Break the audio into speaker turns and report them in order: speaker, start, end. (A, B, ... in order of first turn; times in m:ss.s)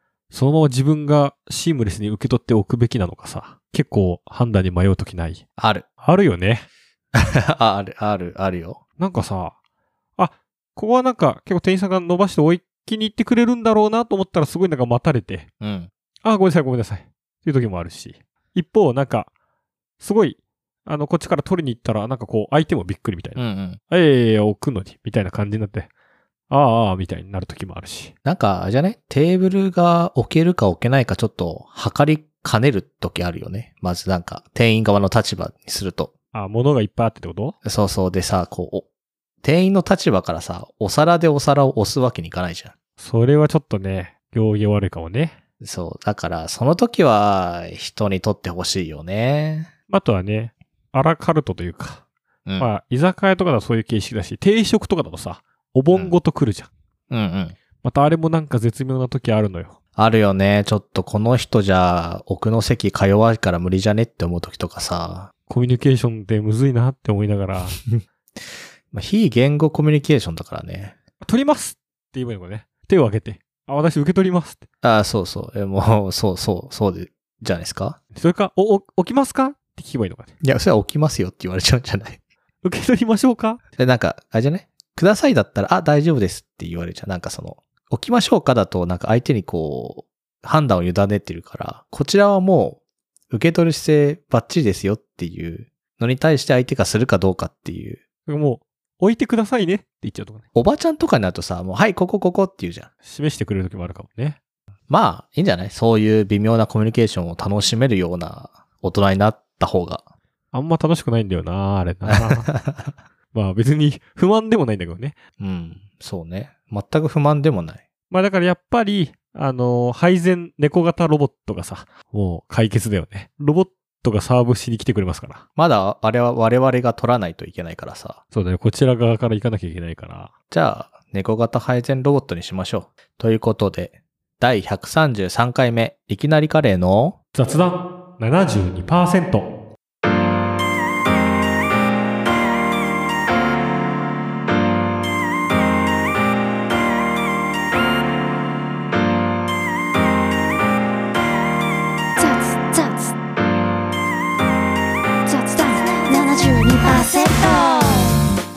0:00.3-0:05.4 A
0:05.6-0:05.8 B
0:06.0-0:06.7 A
0:07.2-0:08.8 B
0:09.0-0:09.6 A
0:10.2-0:15.5 A
0:15.6-0:15.9 B
0:16.2-0:19.3 A
0:20.0-0:23.4 A
0:23.4-0:23.8 B
0:23.9-0:25.9 A
0:26.5-0:28.1 A
0:28.2-0:36.1 B
0:36.3-0:37.6 A
0:37.6-0:38.8 B
0:39.4-0:42.7 B
0:43.0-0:45.4 A
0:45.6-0:49.7 B
0:49.9-0:52.0 A
0:52.6-0:56.7 A
0:57.1-0:57.6 B
0:57.8-0:59.8 A
1:00.0-1:05.3 B
1:05.5-1:07.8 A
1:07.8-1:08.0 B
1:08.9-1:11.0 B
1:11.2-1:14.6 A
1:14.8-1:18.0 B
1:18.2-1:20.3 A
1:20.4-1:22.2 B
1:22.6-1:23.6 A
1:23.8-1:32.8 B
1:33.3-1:38.0 B
1:38.3-1:40.4 A
1:40.6-1:42.9 B
1:43.0-1:44.4 A
1:44.9-1:50.0 B
1:50.5-1:52.5 A
1:52.1-1:52.9 B
1:53.3-1:55.2 A
1:55.4-1:57.8 B
1:58.1-2:05.4 A
2:05.6-2:08.2 B
2:08.3-2:10.3 A
2:10.5-2:17.2 B
2:17.4-2:19.5 A
2:32.2-2:33.1 C
2:35.3-2:38.1 C